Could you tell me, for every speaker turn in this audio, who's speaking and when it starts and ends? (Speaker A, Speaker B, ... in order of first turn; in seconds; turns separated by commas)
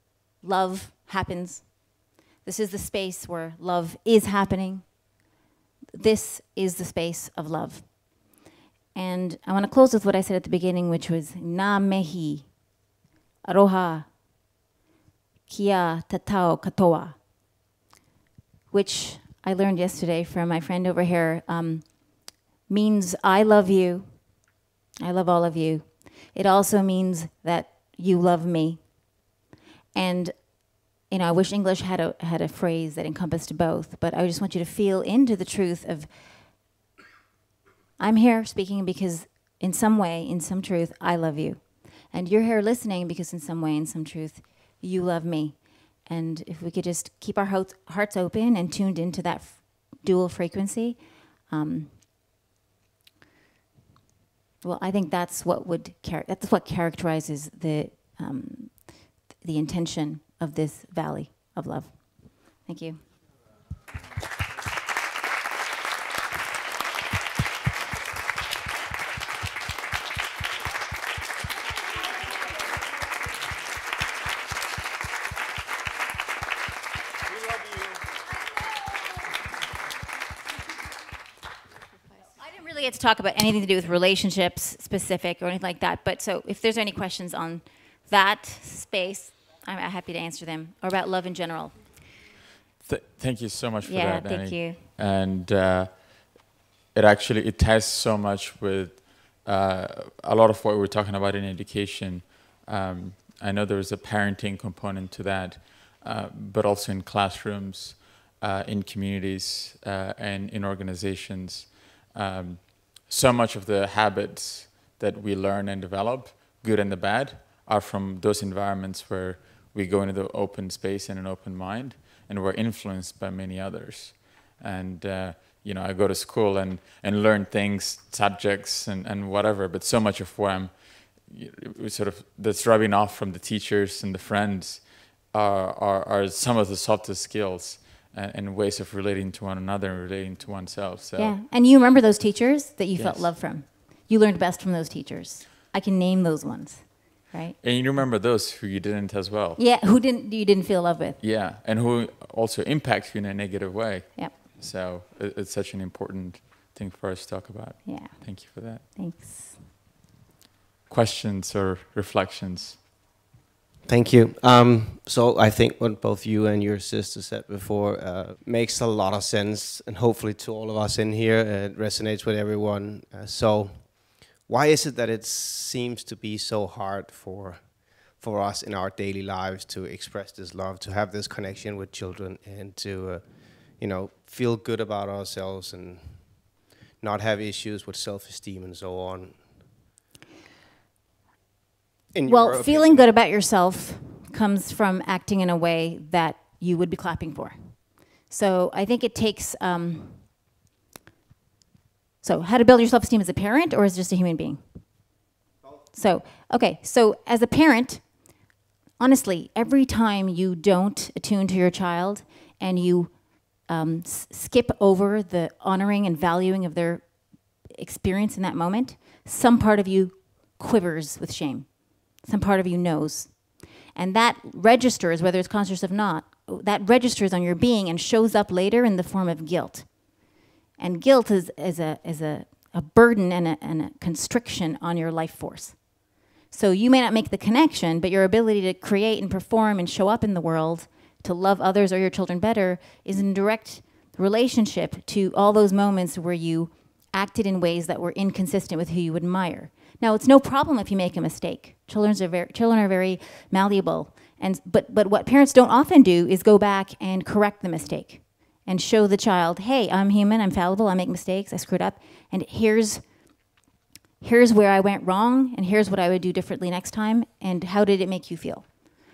Speaker A: 0.4-1.8, Speaker A: 2.5-4.9, Speaker A: 6.0-8.0, Speaker A: 8.9-12.5, Speaker A: 13.4-14.1, Speaker A: 15.5-17.2, Speaker A: 18.7-24.3, Speaker A: 25.0-28.9, Speaker A: 29.9-30.3, Speaker A: 31.1-36.1, Speaker A: 38.0-51.0, Speaker A: 51.5-51.9, Speaker A: 54.6-63.0, Speaker A: 82.4-91.8, Speaker B: 92.8-141.3, Speaker A: 93.8-94.8, Speaker A: 141.2-147.6, Speaker B: 143.0-143.3, Speaker B: 147.6-149.6, Speaker A: 149.6-151.2, Speaker B: 151.2-158.8, Speaker A: 157.8-159.6, Speaker B: 160.9-162.8, Speaker C: 163.9-189.6, Speaker C: 192.1-193.1, Speaker A: 192.3-200.3, Speaker A: 202.2-204.6, Speaker A: 205.9-208.0, Speaker A: 209.0-213.1, Speaker A: 213.7-217.1, Speaker A: 217.6-223.4, Speaker A: 223.9-230.1, Speaker A: 230.8-235.8, Speaker A: 236.5-263.0, Speaker A: 264.2-268.7